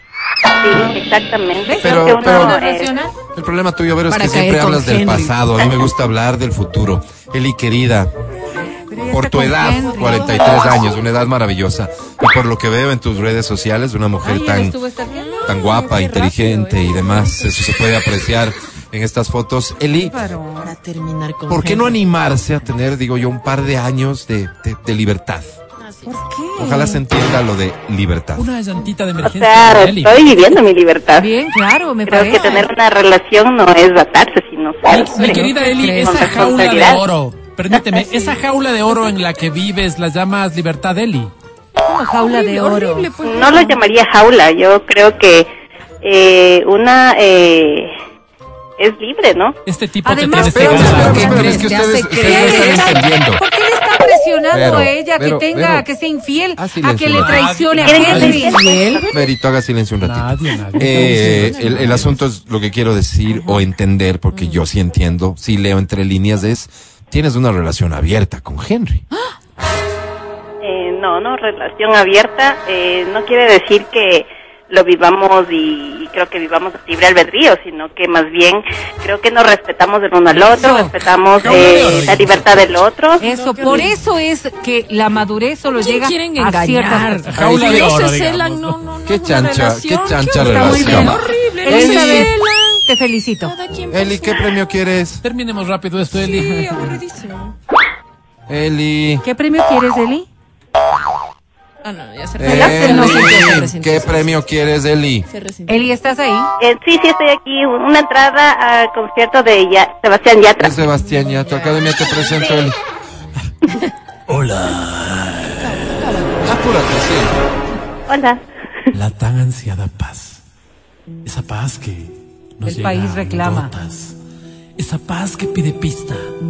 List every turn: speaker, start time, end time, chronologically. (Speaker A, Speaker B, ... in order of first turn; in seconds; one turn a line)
Speaker A: 0.6-2.9
Speaker B: 1.6-3.1
Speaker C: 1.8-2.5
Speaker C: 3.4-8.1
Speaker D: 4.1-5.8
Speaker B: 8.5-10.7
Speaker C: 9.1-14.8
Speaker D: 10.0-10.8
Speaker B: 14.2-16.0
Speaker D: 15.1-17.6
Speaker C: 15.4-20.2
Speaker B: 20.0-20.8
Speaker D: 20.6-22.0
Speaker C: 21.5-25.6
Speaker D: 25.8-26.2
Speaker B: 26.1-27.0
Speaker C: 26.6-28.5
Speaker E: 28.4-30.2
Speaker A: 29.2-31.3
Speaker B: 31.1-32.5
Speaker A: 32.1-35.5
Speaker D: 32.3-32.7
Speaker E: 34.9-41.3
Speaker B: 35.1-36.4
Speaker D: 35.2-35.5
Speaker A: 36.0-37.0
Speaker D: 38.0-38.3
Speaker B: 41.8-43.1
Speaker D: 42.2-43.8
Speaker A: 43.2-45.5
Speaker A: 46.0-47.9
Speaker A: 48.8-49.6
Speaker E: 49.7-51.7
Speaker B: 50.0-59.0
Speaker C: 50.3-53.4
Speaker E: 52.2-52.8
Speaker C: 54.5-55.9
Speaker C: 56.6-57.4
Speaker E: 57.2-58.4
Speaker A: 57.8-59.3
Speaker C: 58.0-58.5
Speaker C: 59.1-69.0
Speaker E: 60.0-62.1
Speaker D: 61.0-62.2
Speaker D: 64.3-64.6
Speaker A: 70.6-83.2
Speaker B: 80.4-80.9
Speaker E: 81.4-82.5
Speaker B: 83.2-87.2
Speaker D: 83.2-84.0
Speaker D: 85.8-92.9
Speaker E: 87.3-88.8
Speaker C: 89.1-91.2
Speaker B: 90.3-92.3
Speaker C: 91.7-92.3
Speaker B: 92.8-93.5
Speaker D: 93.4-94.6
Speaker C: 93.9-95.2
Speaker E: 95.2-96.7
Speaker D: 96.2-97.5
Speaker B: 96.6-96.9
Speaker C: 98.5-99.2
Speaker B: 99.2-100.3
Speaker D: 101.8-104.6
Speaker C: 102.4-105.3
Speaker B: 102.4-103.7
Speaker D: 105.3-106.0
Speaker B: 105.7-106.5
Speaker A: 106.6-110.8
Speaker C: 110.6-112.8
Speaker D: 111.4-112.4
Speaker E: 114.3-116.0
Speaker D: 115.6-116.7
Speaker C: 116.4-117.4
Speaker A: 118.1-118.4
Speaker E: 118.9-120.4
Speaker E: 121.2-124.2
Speaker B: 122.6-123.7
Speaker E: 124.8-126.3